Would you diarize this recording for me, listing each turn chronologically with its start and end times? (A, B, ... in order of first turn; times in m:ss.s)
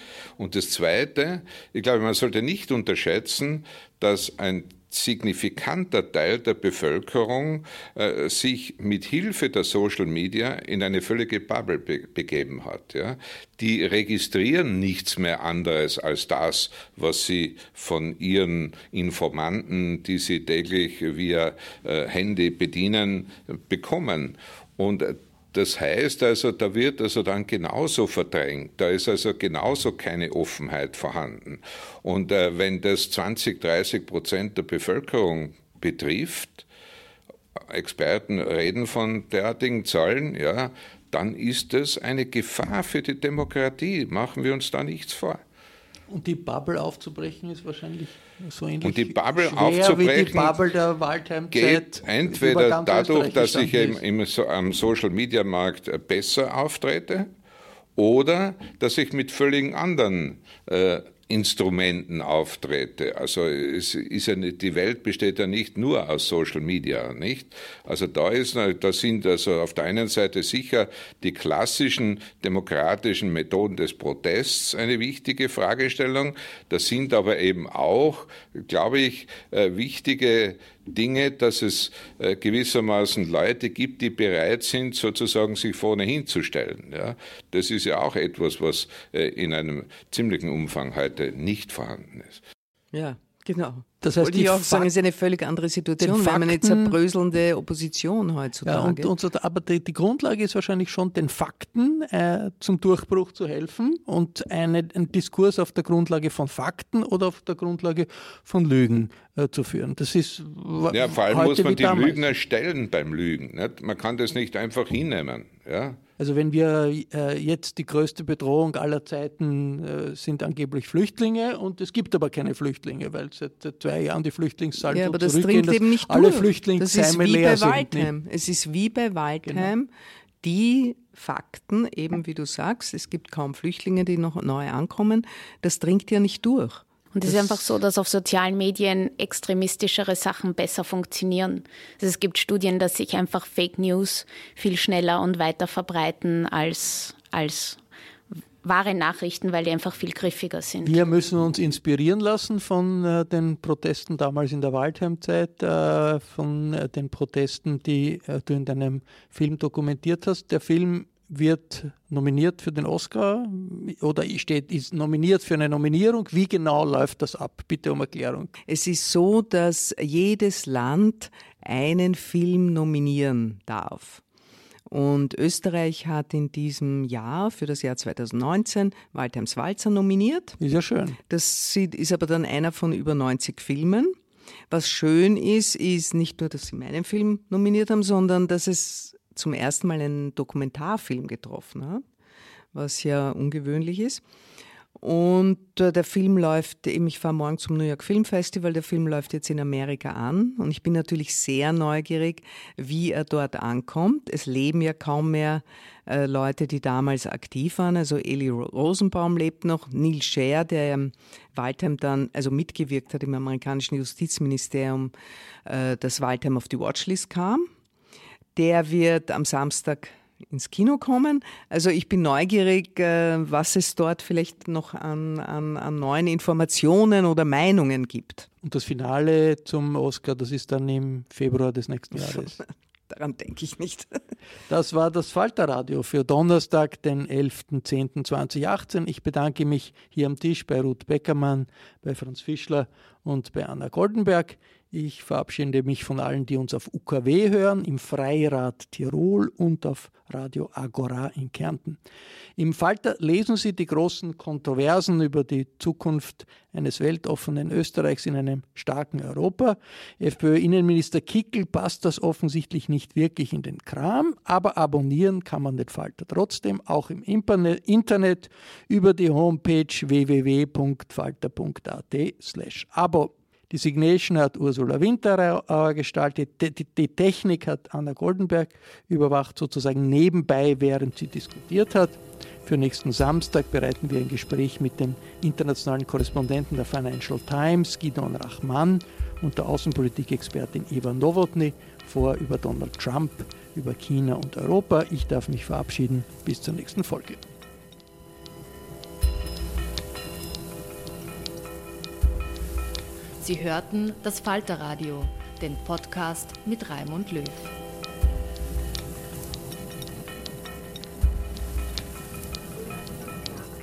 0:00.4-0:36.6 A
0:37.7-0:45.4 A
0:46.1-0:54.0 B
0:48.8-0:50.6 A
0:51.5-0:57.3 A
0:58.0-1:32.4 A
1:32.9-1:39.1 C
1:34.0-1:34.9 B
1:36.0-1:37.0 B
1:38.6-1:52.2 B
1:50.9-1:56.0 A
1:56.2-2:08.1 B
2:04.9-2:09.9 C
2:09.4-2:09.7 B
2:10.4-2:16.8 C
2:17.1-2:27.8 D
2:17.3-2:17.5 B
2:28.6-2:31.0 D
2:30.8-2:48.5 B
2:48.7-2:54.2 C
2:54.9-3:00.6 C
3:00.6-3:01.2 B
3:01.3-3:04.2 C
3:04.7-3:12.0 C
3:12.7-3:14.2 C
3:15.0-3:35.1 C
3:35.6-3:37.7 C
3:38.5-3:48.5 C
3:48.6-3:52.6 B
3:52.3-3:54.2 C
3:54.7-4:12.0 B
4:12.6-4:57.4 B
5:03.4-5:07.7 E